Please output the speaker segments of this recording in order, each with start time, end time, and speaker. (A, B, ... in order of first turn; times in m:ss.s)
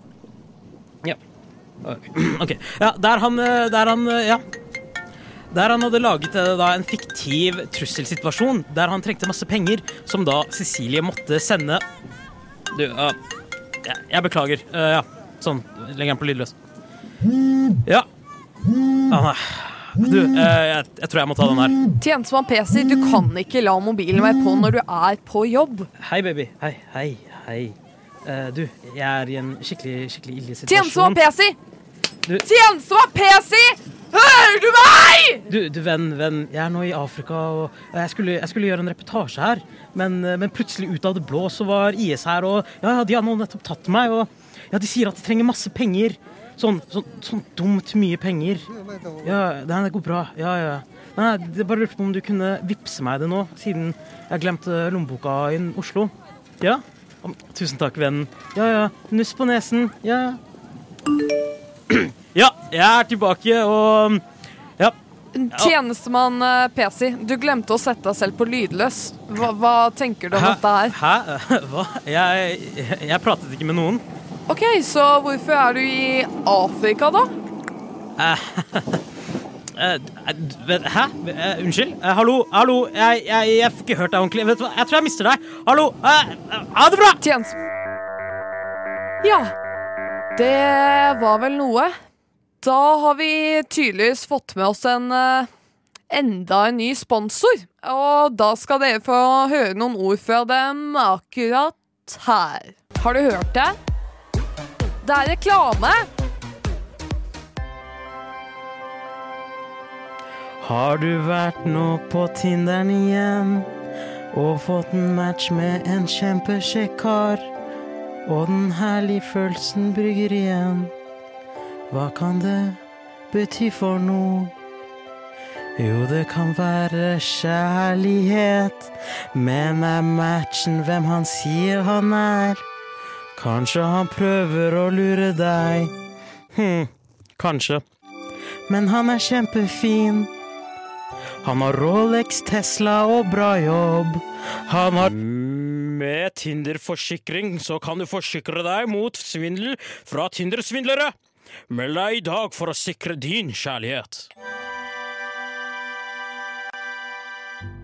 0:01.8-0:04.4 A
0:05.5-0:11.8 A
0:12.7-0:13.2 A
0:13.8-0:16.5 A
0:19.1-0:21.8 A
0:22.0-0:25.9 B
0:26.0-0:31.2 A
0:30.7-0:31.6 B
0:32.4-0:35.5 B
0:35.5-0:48.7 A
0:49.2-1:00.4 A
1:01.9-1:04.2 A
1:05.3-1:11.0 B
1:10.3-1:14.0 A
1:14.5-1:17.3 B
1:18.2-1:19.0 A
1:19.8-1:27.2 A
1:27.2-1:27.6 B
1:29.2-1:29.6 B
1:30.4-1:31.9 B
1:32.6-1:35.5 B
1:36.1-1:43.8 B
1:45.0-1:46.0 B
1:50.6-1:53.7 A
1:54.3-1:57.5 A
1:58.3-2:00.9 A
2:01.9-2:02.8 A
2:03.3-2:04.5 A
2:05.8-2:12.6 A
2:13.4-2:15.9 A
2:16.5-2:17.8 A
2:18.7-2:20.3 A
2:21.4-2:31.2 A
2:31.7-2:34.3 A